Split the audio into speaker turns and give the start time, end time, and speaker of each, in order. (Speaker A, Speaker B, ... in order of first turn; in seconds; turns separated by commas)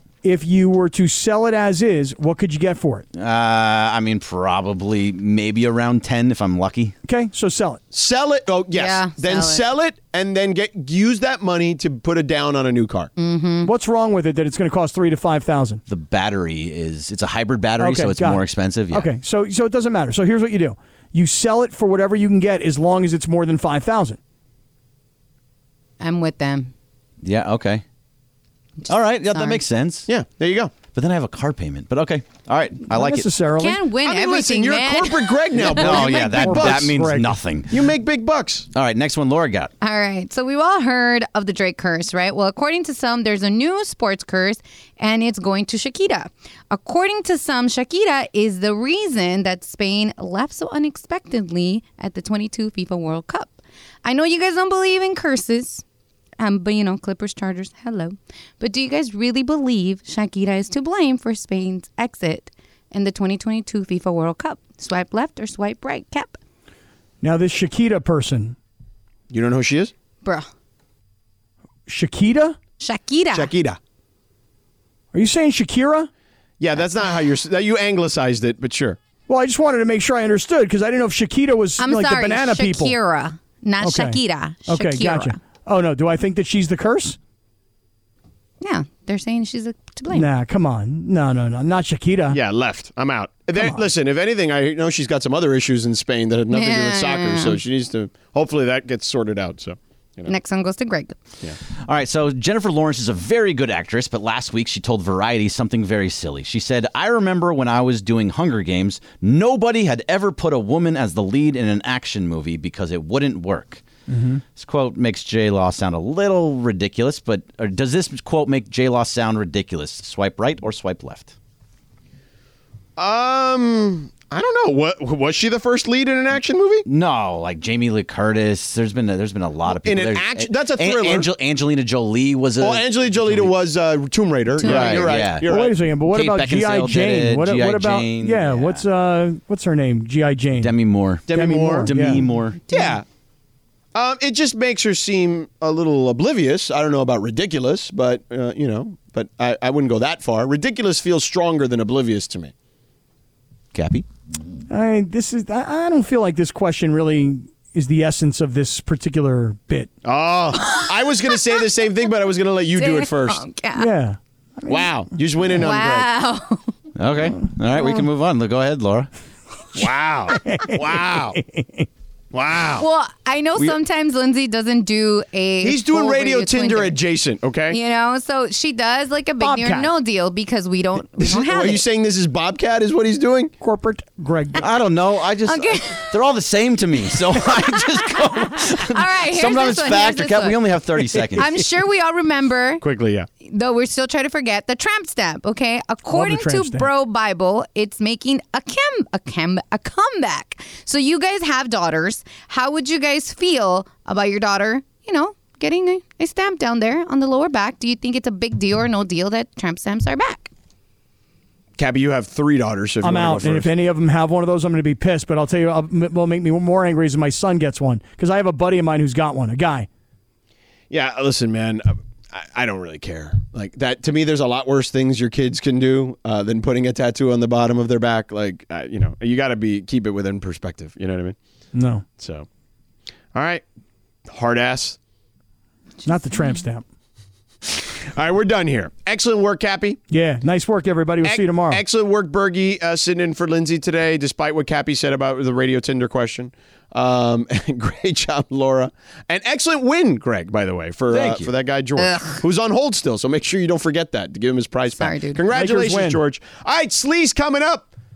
Speaker A: 0.2-3.0, Speaker B: 3.1-6.9, Speaker A: 7.0-7.8, Speaker C: 7.9-13.1, Speaker D: 8.7-9.6, Speaker D: 13.2-13.7, Speaker A: 13.6-15.8, Speaker B: 15.9-19.1, Speaker A: 17.8-24.2, Speaker D: 26.0-26.7, Speaker B: 27.2-27.8, Speaker D: 28.8-29.6, Speaker B: 28.9-30.1, Speaker C: 30.1-30.7, Speaker B: 30.9-33.3, Speaker A: 32.9-33.9, Speaker D: 33.6-36.4, Speaker C: 34.0-36.9, Speaker B: 35.6-37.9, Speaker A: 35.8-37.4, Speaker C: 37.7-38.7, Speaker B: 38.7-39.7, Speaker D: 39.8-55.8, Speaker D: 56.4-66.4, Speaker A: 67.2-68.5, Speaker C: 69.3-69.9, Speaker A: 71.9-72.6, Speaker D: 72.8-73.5, Speaker C: 73.3-73.8, Speaker A: 75.1-76.1, Speaker C: 76.6-79.0, Speaker A: 79.3-83.0, Speaker D: 81.8-85.4, Speaker A: 83.8-87.2, Speaker D: 88.6-90.3, Speaker A: 90.1-92.4, Speaker C: 92.3-100.3, Speaker A: 93.5-93.8, Speaker D: 96.5-97.6, Speaker D: 100.3-101.1, Speaker B: 101.8-113.8, Speaker A: 114.1-114.4, Speaker B: 114.5-121.3, Speaker C: 123.0-126.8, Speaker B: 126.8-133.5, Speaker C: 129.7-131.3, Speaker C: 132.6-135.7, Speaker D: 134.6-135.3, Speaker B: 134.6-135.6, Speaker A: 135.4-140.7, Speaker B: 136.1-138.8, Speaker B: 140.6-142.6, Speaker C: 141.3-141.9, Speaker A: 141.3-142.3, Speaker D: 142.7-143.0, Speaker C: 142.7-143.0, Speaker C: 143.9-152.5, Speaker B: 153.7-154.1, Speaker A: 154.7-159.9, Speaker C: 160.0-163.4, Speaker D: 162.8-163.9, Speaker A: 163.7-165.0, Speaker C: 164.7-166.1, Speaker D: 165.5-166.7, Speaker B: 166.9-169.1, Speaker C: 169.7-171.4, Speaker A: 170.4-171.9, Speaker C: 172.3-172.8, Speaker D: 172.8-176.9, Speaker C: 175.6-177.8, Speaker D: 177.7-181.8, Speaker A: 179.4-179.9, Speaker C: 181.2-183.5, Speaker A: 183.6-184.6, Speaker B: 184.6-191.7, Speaker D: 185.4-186.1, Speaker D: 187.5-190.6, Speaker D: 191.4-192.8, Speaker C: 192.8-193.3, Speaker D: 193.4-210.5, Speaker A: 196.1-196.9, Speaker C: 211.8-213.7, Speaker A: 213.0-219.9, Speaker C: 220.9-231.3, Speaker A: 231.7-232.0, Speaker C: 232.2-232.5, Speaker C: 233.3-233.6, Speaker C: 234.3-235.0, Speaker A: 236.0-236.8, Speaker C: 238.1-240.0, Speaker A: 240.1-241.8, Speaker C: 241.2-257.9, Speaker B: 251.1-251.5, Speaker D: 252.0-252.4, Speaker D: 255.0-255.4, Speaker A: 255.5-256.2